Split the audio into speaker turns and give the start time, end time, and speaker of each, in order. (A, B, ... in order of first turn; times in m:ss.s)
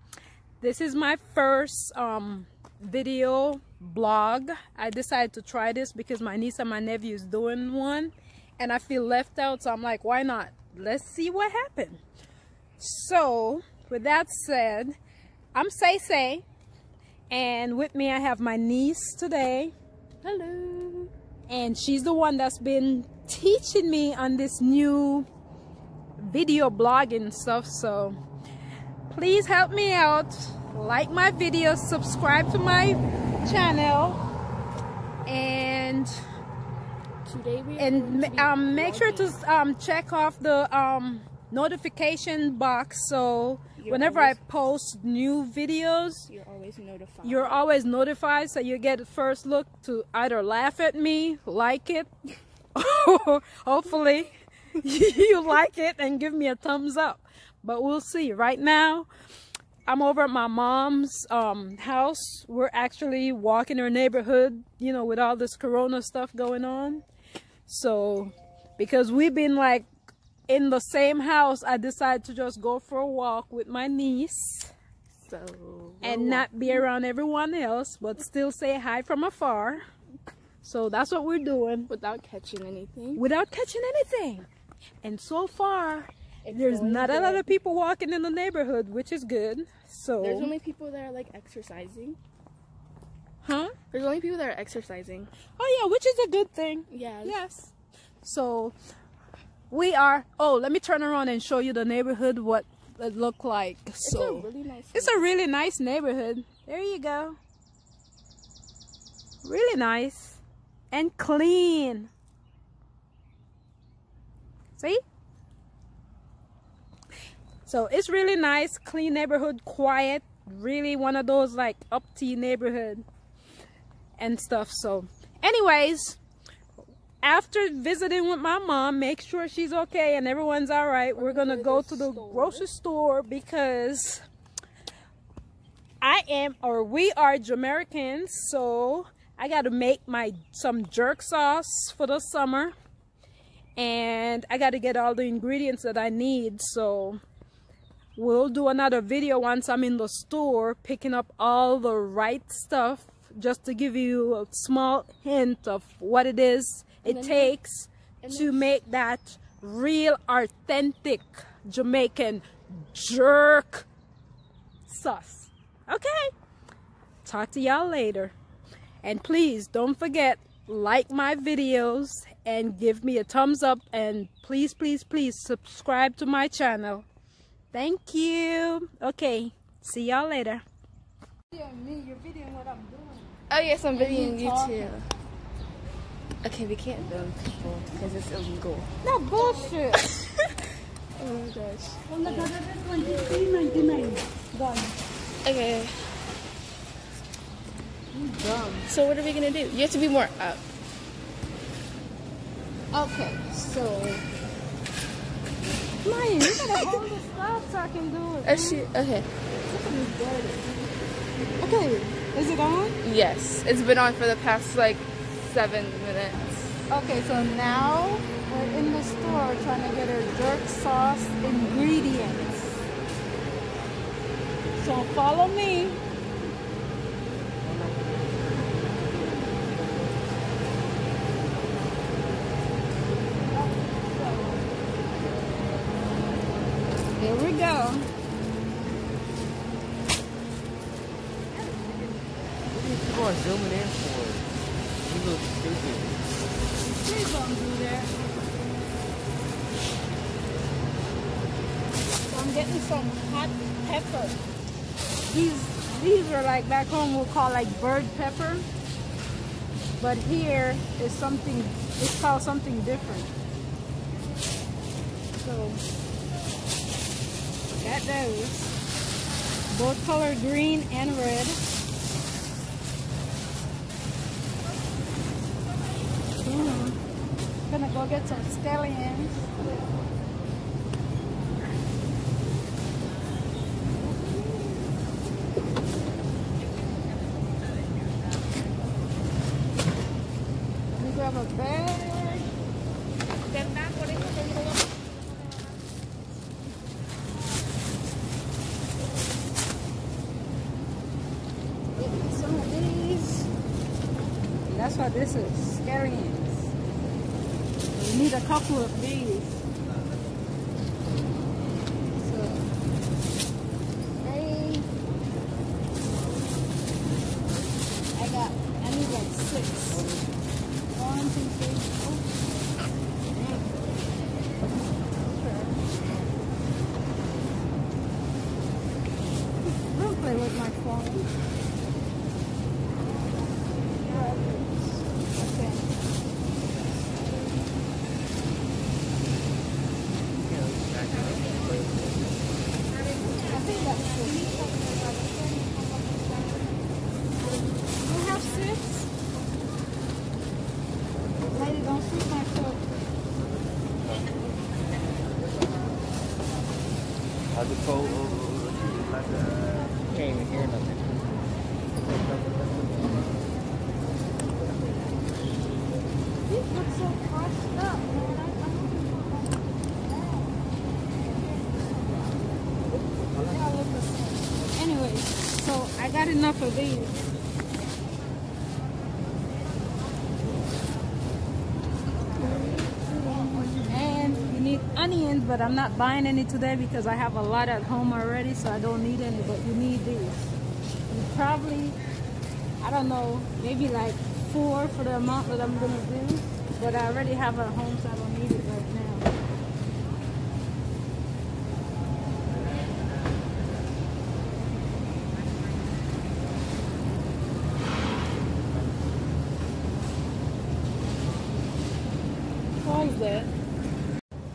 0:00.6-0:12.0 A
0:12.8-0:15.0 A
0:15.5-0:16.4 A
0:17.3-0:19.7 A
0:20.2-0:21.1 B
0:21.5-0:25.3 A
0:26.2-0:28.2 A
0:29.1-0:34.2 A
0:35.3-0:36.2 A
0:37.2-0:39.4 B
0:37.8-0:46.3 A
0:43.8-0:44.4 B
0:46.3-0:47.6 B
0:47.2-0:52.1 A
0:52.8-0:59.1 A
0:59.9-1:07.0 A
1:07.7-1:09.9 A
1:10.5-1:14.7 A
1:15.2-1:16.8 B
1:16.0-1:19.8 A
1:20.6-1:21.9 A
1:21.9-1:23.2 B
1:23.2-1:24.5 A
1:25.0-1:30.5 A
1:26.4-1:27.5 B
1:30.2-1:32.2 B
1:33.5-1:35.3 B
1:35.6-1:37.7 A
1:36.9-1:37.4 B
1:38.2-1:38.8 A
1:39.7-1:47.4 A
1:44.0-1:45.3 B
1:49.4-1:52.1 A
1:57.7-2:03.0 A
2:04.2-2:06.2 A
2:07.2-2:14.2 A
2:11.2-2:12.6 B
2:16.0-2:22.7 A
2:23.8-2:27.2 A
2:28.2-2:43.9 A
2:37.0-2:37.5 B
2:38.2-2:38.7 B
2:44.9-2:46.3 A
2:47.2-2:48.3 A
2:49.0-2:57.1 A
2:57.7-3:00.6 A
3:01.5-3:03.4 A
3:03.5-3:05.1 B
3:03.9-3:04.9 A
3:06.4-3:08.9 B
3:09.0-3:10.1 A
3:11.2-3:12.5 B
3:12.1-3:14.9 A
3:15.4-3:15.9 B
3:18.1-3:18.9 A
3:18.9-3:20.6 B
3:22.9-3:24.3 A
3:26.0-3:28.9 A
3:26.6-3:27.0 B
3:28.4-3:29.3 B
3:29.7-3:30.6 A
3:31.6-3:33.0 A
3:33.0-3:36.8 B
3:36.9-3:42.8 A
3:44.8-3:46.0 A
3:54.2-3:54.5 A
3:57.2-3:58.1 A
4:02.7-4:04.5 C
4:05.0-4:06.2 C
4:06.9-4:08.2 A
4:12.2-4:14.4 A
4:15.3-4:18.7 A
4:20.0-4:23.3 A
4:25.4-4:25.8 A
4:27.7-4:28.8 A
4:29.7-4:31.6 A
4:36.4-4:37.0 A
4:37.7-4:39.5 A
4:44.3-4:44.8 A
4:51.0-4:52.5 A
5:02.0-5:03.5 A
5:04.7-5:06.7 A
5:07.9-5:09.5 A
5:12.2-5:12.7 A
5:14.2-5:14.9 A
5:18.2-5:20.1 A
5:20.9-5:22.2 A
5:23.3-5:23.8 A
5:25.2-5:25.8 A
5:29.8-5:31.3 A
5:34.1-5:35.8 A
5:40.4-5:42.2 C
5:43.2-5:45.6 A
5:48.0-5:49.1 A
5:51.5-5:52.8 A
6:00.1-6:01.4 C
6:06.5-6:09.4 A
6:10.2-6:10.4 A
6:13.4-6:17.2 A
6:23.1-6:30.5 A
6:31.1-6:32.0 A
6:32.8-6:39.3 A
6:52.8-6:53.5 B